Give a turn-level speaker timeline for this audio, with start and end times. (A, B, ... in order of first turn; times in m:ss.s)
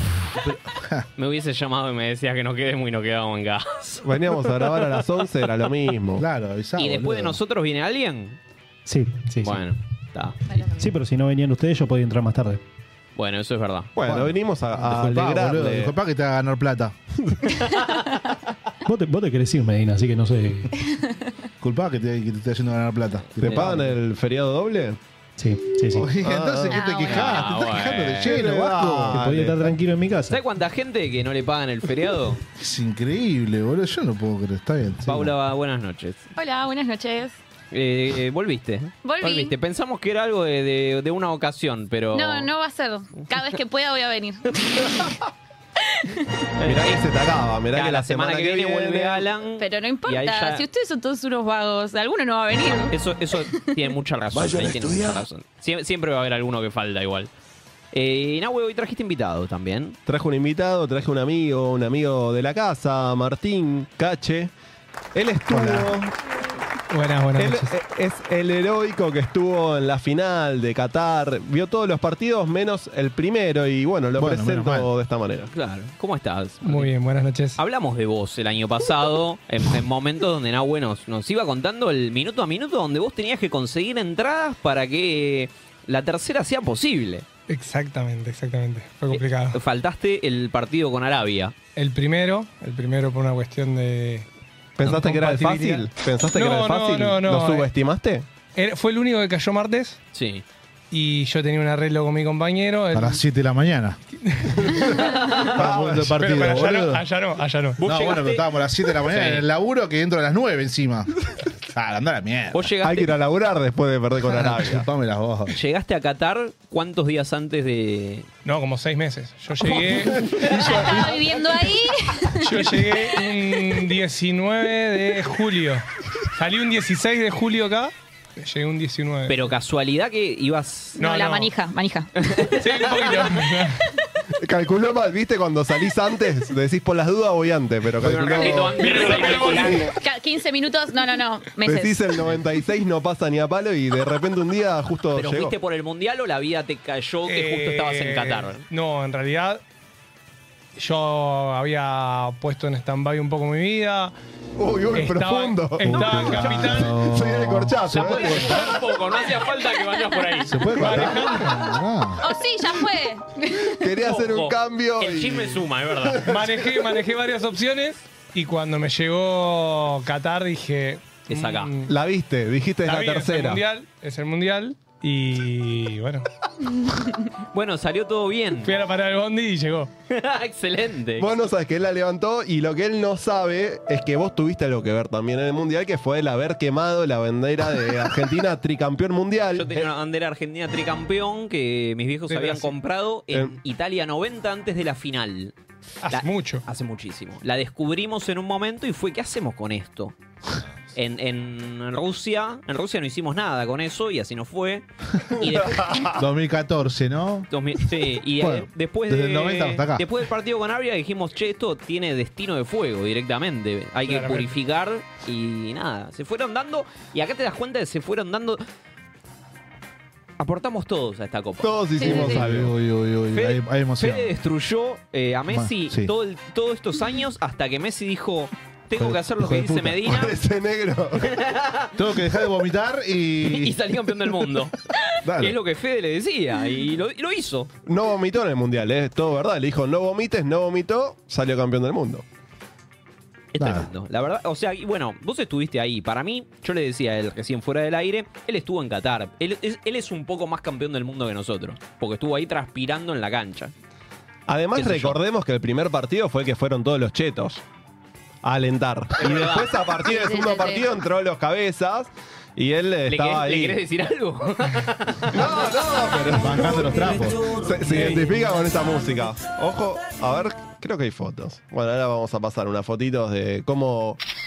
0:00.4-0:01.0 A
0:01.2-0:03.9 B
0:04.0-0:06.3 C
0:06.2-0:07.4 A
0:06.8-0:08.4 B
0:08.9-0:09.7 D
0:09.4-0:10.4 B
0:10.5-0:10.9 E
0:10.8-0:12.6 D
0:13.2-0:13.9 B
0:14.0-0:15.9 C
0:14.0-0:17.0 A
0:17.3-0:17.5 C
0:17.7-0:18.2 B
0:18.8-0:20.7 D
0:20.8-0:21.1 E
0:21.6-0:24.0 A
0:23.3-0:23.8 B
0:23.4-0:25.0 C
0:25.4-0:26.1 D
0:25.9-0:29.2 A
0:26.1-0:26.8 C
0:26.7-0:27.4 E
0:27.1-0:28.4 B
0:28.2-0:29.8 C
0:29.1-0:30.4 D
0:30.3-0:32.4 B
0:32.6-0:35.3 A
0:35.1-0:36.3 B
0:36.4-0:37.4 E
0:37.7-0:42.5 B
0:39.0-0:39.6 E
0:42.1-0:45.2 E
0:46.6-0:47.0 B
0:46.6-0:49.3 C
0:47.7-0:50.7 B
0:49.6-0:53.8 E
0:52.9-0:57.3 B
0:54.4-0:55.2 C
0:57.9-1:00.0 B
1:00.1-1:04.5 C
1:05.1-1:06.2 C
1:05.5-1:06.0 A
1:06.9-1:07.7 F
1:07.4-1:15.5 C
1:14.2-1:14.9 A
1:15.5-1:16.9 B
1:16.6-1:17.6 F
1:17.6-1:27.2 B
1:27.5-1:29.6 F
1:29.1-1:31.5 B
1:31.8-1:34.3 F
1:34.8-1:38.3 C
1:34.8-1:37.7 F
1:38.6-1:40.0 F
1:40.1-1:40.4 B
1:40.9-1:43.2 F
1:42.9-1:44.0 A
1:44.2-1:44.9 F
1:44.8-1:46.1 C
1:45.4-1:47.0 A
1:46.2-1:47.8 F
1:47.8-1:51.1 A
1:47.8-1:48.4 B
1:49.0-1:49.4 B
1:51.7-1:52.7 A
1:52.5-1:53.1 B
1:52.8-1:54.8 C
1:54.2-1:55.6 A
1:55.5-1:58.3 B
1:58.4-2:00.2 F
1:59.7-2:03.2 E
2:00.2-2:01.2 C
2:02.4-2:09.4 F
2:09.3-2:11.1 B
2:11.0-2:11.5 F
2:11.0-2:12.1 E
2:12.2-2:13.4 B
2:12.6-2:13.9 F
2:14.4-2:19.7 C
2:18.0-2:19.9 B
2:18.8-2:19.9 F
2:19.9-2:22.2 E
2:21.6-2:25.5 C
2:25.1-2:28.6 B
2:27.3-2:29.6 F
2:30.8-2:34.1 F
2:34.6-2:38.7 C
2:34.9-2:36.9 F
2:35.9-2:38.6 A
2:37.9-2:41.4 B
2:39.9-2:40.5 E
2:40.5-2:42.2 A
2:40.8-2:41.7 F
2:42.2-2:43.8 E
2:43.8-2:46.7 C
2:44.0-2:46.3 B
2:46.3-2:51.9 F
2:51.3-2:51.7 B
2:51.9-2:53.6 C
2:52.8-2:56.3 F
2:57.5-2:58.7 B
2:58.6-2:59.9 F
3:00.1-3:01.4 B
3:01.2-3:09.9 C
3:09.6-3:15.6 B
3:12.3-3:12.7 F
3:13.3-3:13.6 C
3:16.0-3:16.6 F
3:16.1-3:20.2 B
3:21.0-3:25.8 B
3:25.4-3:26.2 C
3:26.2-3:27.5 A
3:27.5-3:38.6 B
3:28.4-3:30.1 A
3:34.0-3:34.6 F
3:40.4-3:42.4 B
3:41.6-3:42.7 C
3:42.0-3:42.4 E
3:42.0-3:44.3 A
3:43.3-3:50.4 B
3:45.5-3:46.1 A
3:49.0-3:50.3 A
3:50.0-3:51.3 C
3:51.2-3:52.0 B
3:52.0-3:54.6 A
3:53.4-3:54.8 B
3:55.2-3:55.6 C
3:55.4-3:57.7 B
3:57.9-4:02.2 C
4:03.5-4:13.7 B
4:03.6-4:03.9 A
4:14.5-4:17.6 C
4:14.7-4:15.2 B
4:18.4-4:23.8 C
4:19.2-4:19.9 B
4:20.0-4:20.9 E
4:23.1-4:25.5 B
4:25.3-4:34.2 C
4:26.4-4:27.6 A
4:26.9-4:28.5 B